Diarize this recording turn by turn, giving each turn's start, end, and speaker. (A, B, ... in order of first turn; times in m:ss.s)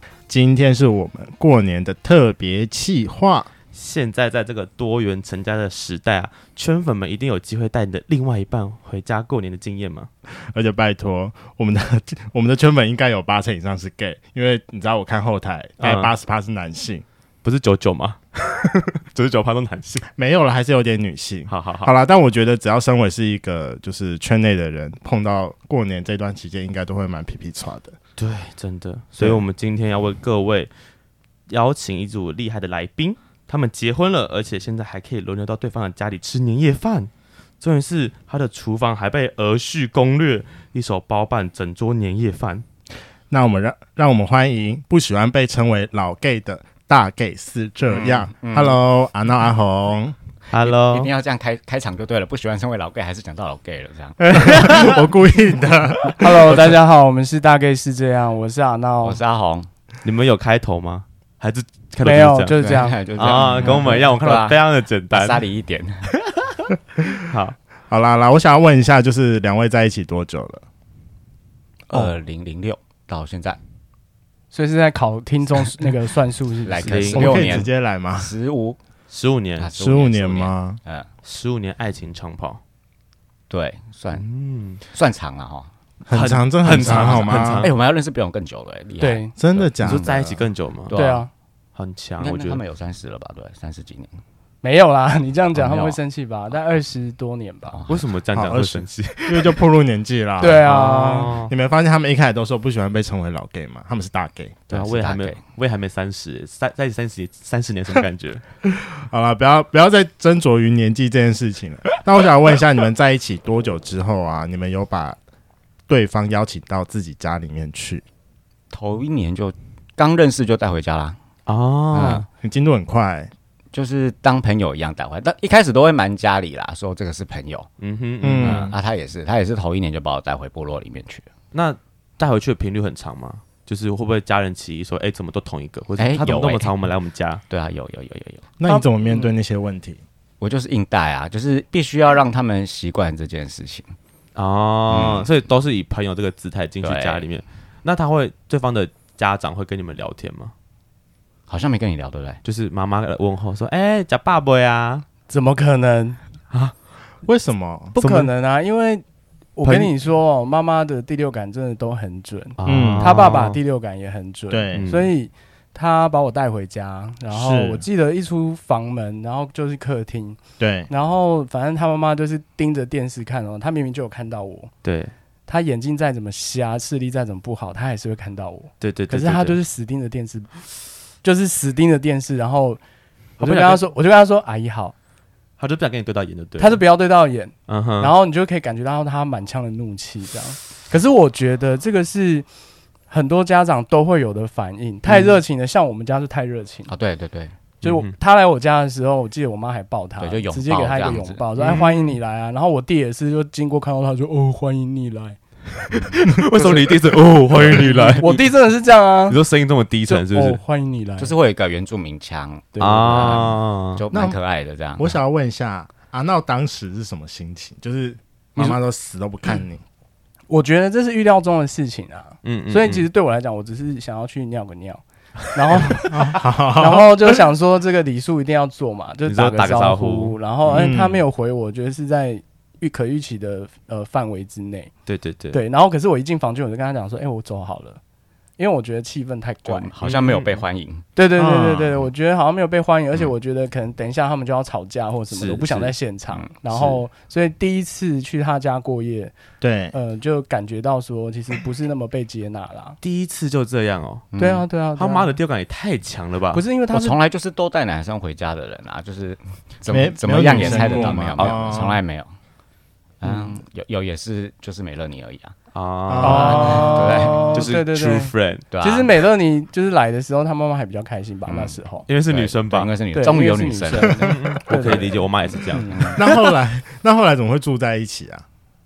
0:00.3-0:03.5 A
0:03.7-0:10.1 B
0:10.5-0:17.0 A
0:15.8-0:16.1 B
0:17.4-0:20.1 B
0:20.1-0:28.0 A
0:21.5-0:21.9 B
0:28.2-0:30.7 B
0:29.2-0:29.4 A
0:31.5-0:37.1 B
0:37.6-0:42.6 B
0:43.3-0:50.1 A
0:47.9-0:48.8 C
0:50.5-0:51.1 B
0:50.6-0:54.9 C
0:54.2-0:56.7 A
0:54.4-0:54.9 B
0:56.2-0:59.2 D
0:59.0-0:59.7 C
1:00.0-1:05.4 B
1:02.0-1:03.0 D
1:02.7-1:04.6 C
1:05.1-1:06.1 C
1:06.3-1:06.6 B
1:07.2-1:07.6 B
1:07.9-1:10.6 A
1:11.9-1:13.6 C
1:14.5-1:17.2 D
1:16.6-1:18.8 C
1:16.8-1:17.6 B
1:17.1-1:18.3 A
1:19.1-1:19.7 B
1:19.6-1:21.1 C
1:19.7-1:20.8 A
1:21.2-1:22.6 B
1:23.5-1:24.2 C
1:24.1-1:24.8 B
1:24.8-1:25.7 C
1:26.0-1:27.7 A
1:26.1-1:27.7 B
1:26.6-1:30.3 C
1:29.0-1:29.3 D
1:29.4-1:30.4 A
1:29.8-1:31.0 B
1:30.9-1:31.2 C
1:30.9-1:31.3 D
1:31.7-1:32.6 B
1:32.2-1:34.2 C
1:34.6-1:37.8 D
1:35.5-1:36.0 C
1:37.7-1:38.0 C
1:37.9-1:39.6 B
1:38.3-1:40.8 A
1:40.4-1:41.4 D
1:40.4-1:41.5 B
1:41.4-1:44.6 A
1:44.7-1:45.4 C
1:44.7-1:48.4 B
1:48.7-1:55.2 A
1:55.9-1:58.0 A
1:58.7-2:01.2 C
2:01.5-2:02.2 B
2:01.9-2:02.3 C
2:02.4-2:03.3 A
2:03.7-2:07.7 C
2:07.8-2:08.7 B
2:08.2-2:08.7 A
2:08.4-2:11.3 C
2:11.5-2:17.4 B
2:16.0-2:16.7 C
2:17.5-2:18.5 C
2:18.6-2:20.0 A
2:19.1-2:19.3 D
2:20.4-2:23.9 C
2:24.4-2:30.5 B
2:24.9-2:25.3 C
2:26.8-2:27.2 C
2:31.5-2:32.4 C
2:32.4-2:35.0 B
2:35.3-2:36.2 D
2:37.2-2:38.0 A
2:38.0-2:39.0 D
2:38.0-2:38.3 B
2:39.6-2:54.7 D
2:39.6-2:39.9 B
2:42.6-2:43.6 B
2:42.6-2:43.3 A
2:44.5-2:44.9 A
2:44.7-2:45.1 B
2:47.3-2:47.8 A
2:50.6-2:50.9 A
2:54.8-2:55.1 B
2:55.5-3:00.7 D
2:58.8-2:59.6 B
3:01.2-3:02.8 D
3:03.4-3:03.8 B
3:03.4-3:04.9 D
3:05.6-3:06.8 B
3:06.6-3:12.4 D
3:07.7-3:08.1 B
3:13.1-3:16.9 D
3:15.0-3:15.4 C
3:16.9-3:17.6 C
3:17.8-3:25.4 D
3:17.8-3:18.1 B
3:20.2-3:21.4 C
3:21.6-3:22.0 B
3:25.9-3:28.5 B
3:26.5-3:27.0 C
3:27.6-3:28.0 C
3:27.8-3:29.4 D
3:29.3-3:30.6 B
3:30.1-3:31.3 D
3:31.2-3:35.2 C
3:32.7-3:33.4 D
3:32.8-3:34.0 B
3:34.1-3:34.4 A
3:35.0-3:39.8 A
3:40.5-3:54.9 D
3:42.4-3:43.1 B
3:46.0-3:47.4 A
3:49.3-3:50.8 B
3:50.7-3:51.2 A
3:55.1-3:55.6 B
3:55.5-3:58.0 D
3:58.6-3:59.9 D
3:59.6-4:01.0 C
4:00.0-4:00.6 B
4:01.2-4:09.3 D
4:01.4-4:02.0 A
4:05.3-4:05.9 B
4:06.3-4:07.0 C
4:09.6-4:09.9 A
4:09.9-4:13.0 D
4:13.0-4:14.3 B
4:14.3-4:14.6 C
4:14.4-4:15.4 D
4:15.0-4:16.6 B
4:16.5-4:17.2 D
4:16.9-4:22.3 C
4:19.9-4:22.0 A
4:20.5-4:21.8 B
4:23.2-4:25.6 C
4:23.2-4:23.6 D
4:25.7-4:28.6 B
4:26.1-4:26.9 A
4:26.2-4:27.7 C
4:26.2-4:32.1 D
4:28.7-4:29.1 C
4:31.5-4:34.3 C
4:32.1-4:32.9 B
4:33.1-4:36.2 D
4:34.1-4:36.5 B
4:35.8-4:36.2 C
4:36.2-4:38.4 A